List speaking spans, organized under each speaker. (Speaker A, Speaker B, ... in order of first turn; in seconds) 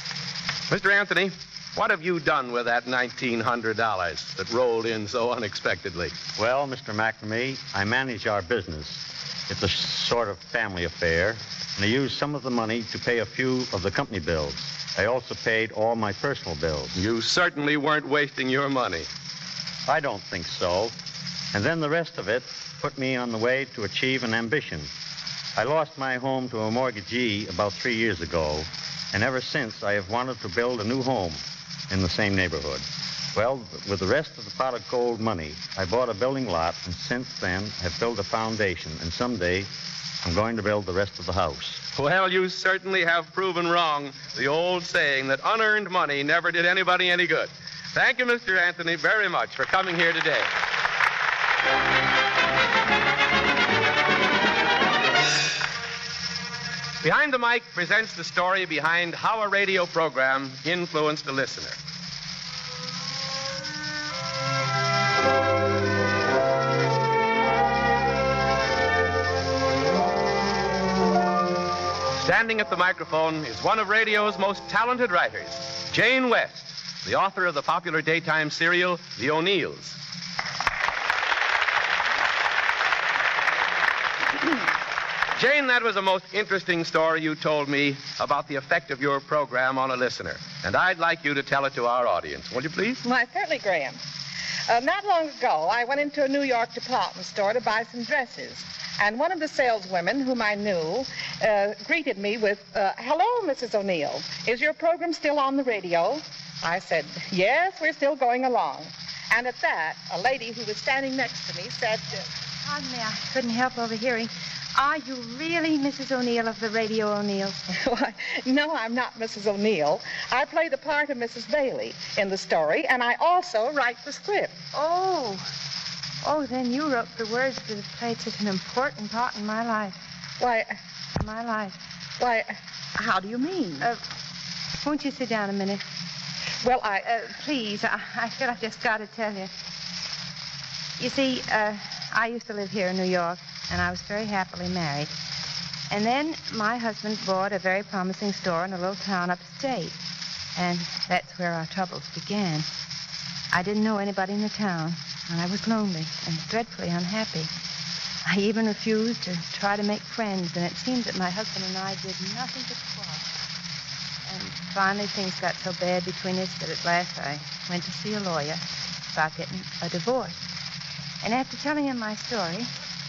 Speaker A: 0.7-6.1, 16.9-19.1, 41.9-50.5, 57.0-61.8, 72.1-80.0, 85.3-93.0
Speaker B: 6.4-17.0, 19.9-20.9, 21.5-24.9, 25.6-39.7, 40.2-41.8
Speaker C: 93.0-94.0, 94.7-112.2, 117.7-124.6, 130.4-130.7, 132.2-133.9, 136.6-137.1
Speaker D: 112.6-117.6, 124.7-125.5, 126.2-130.0, 131.2-131.8, 134.8-135.8, 137.0-139.5, 141.0-145.1, 145.9-150.0, 150.6-152.7, 153.5-157.5, 158.2-163.3, 164.2-170.4, 171.2-172.7